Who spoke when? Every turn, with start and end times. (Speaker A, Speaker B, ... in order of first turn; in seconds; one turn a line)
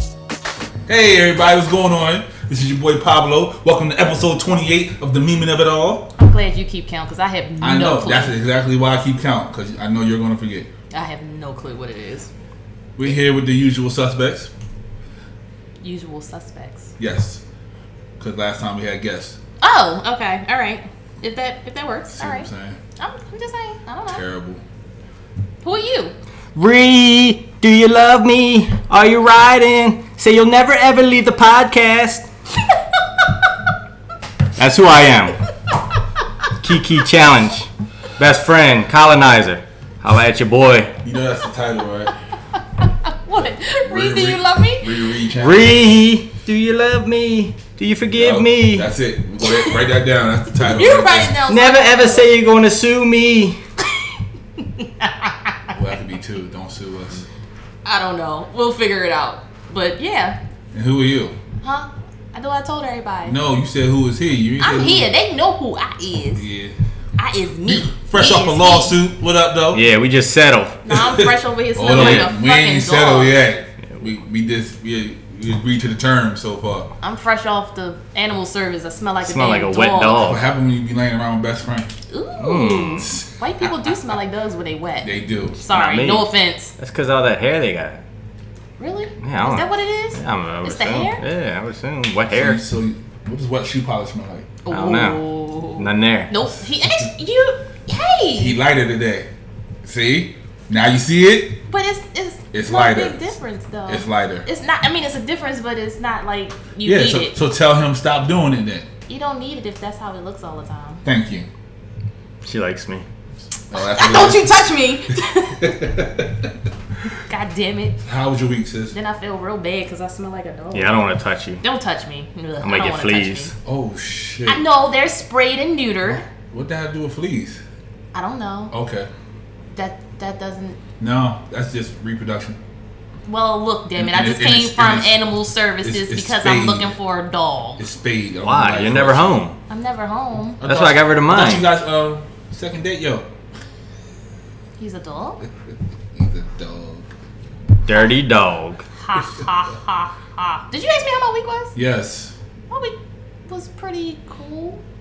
Speaker A: 0.9-6.1
Speaker B: 6.2-8.3
Speaker A: 7.6-10.7
Speaker B: 10.9-12.3
Speaker A: 13.0-14.5
Speaker B: 15.8-16.9
Speaker A: 17.0-17.4
Speaker A: 18.2-19.4
Speaker B: 19.6-24.2
Speaker A: 22.1-22.8
Speaker A: 24.1-24.6
Speaker B: 25.6-26.1
Speaker C: 26.6-32.3
Speaker C: 34.6-35.4
Speaker C: 36.6-40.9
Speaker A: 41.0-42.1
Speaker B: 42.8-44.9
Speaker A: 43.6-45.8
Speaker C: 45.4-48.9
Speaker A: 48.1-51.3
Speaker B: 49.5-49.7
Speaker B: 50.7-52.3
Speaker C: 51.5-53.6
Speaker B: 54.6-55.7
Speaker A: 55.7-57.2
Speaker B: 57.9-60.4
Speaker A: 60.7-61.4
Speaker B: 61.6-63.4
Speaker A: 63.3-65.1
Speaker B: 64.6-66.5
Speaker A: 66.3-66.8
Speaker B: 67.2-69.0
Speaker A: 67.7-69.8
Speaker C: 69.7-70.8
Speaker B: 70.8-73.4
Speaker A: 70.9-76.9
Speaker C: 71.9-72.3
Speaker B: 77.0-80.2
Speaker C: 79.2-80.5
Speaker A: 80.2-81.9
Speaker B: 82.1-86.7
Speaker C: 82.4-83.2
Speaker A: 83.1-83.7
Speaker A: 85.0-85.6
Speaker C: 85.7-88.0
Speaker B: 88.8-91.2
Speaker C: 89.2-92.6
Speaker A: 92.3-94.5
Speaker B: 94.7-98.6
Speaker C: 94.7-95.2
Speaker C: 95.8-96.3
Speaker A: 98.4-99.3
Speaker A: 99.8-101.6
Speaker B: 101.7-107.3
Speaker A: 102.5-103.3
Speaker A: 103.9-104.5
Speaker A: 106.8-108.9
Speaker B: 109.1-111.0
Speaker A: 111.0-111.5
Speaker C: 112.5-113.0
Speaker A: 113.7-114.5
Speaker B: 113.7-115.8
Speaker A: 115.6-116.5
Speaker B: 117.2-118.0
Speaker A: 118.0-119.0
Speaker B: 118.9-121.0
Speaker C: 120.7-121.6
Speaker B: 121.6-123.5
Speaker C: 122.6-123.5
Speaker A: 123.7-124.7
Speaker B: 124.5-126.2
Speaker A: 126.0-127.6
Speaker B: 128.1-128.7
Speaker A: 128.7-129.1
Speaker B: 129.7-130.8
Speaker A: 131.0-132.6
Speaker B: 133.3-137.8
Speaker A: 134.0-135.2
Speaker A: 135.8-136.9
Speaker A: 137.8-139.4
Speaker C: 138.4-139.6
Speaker B: 139.7-140.6
Speaker A: 140.6-143.3
Speaker C: 140.6-141.7
Speaker B: 144.8-145.4
Speaker A: 145.4-147.1
Speaker C: 147.8-148.8
Speaker B: 149.0-151.8
Speaker A: 151.8-152.3
Speaker B: 152.7-153.0
Speaker B: 153.5-154.8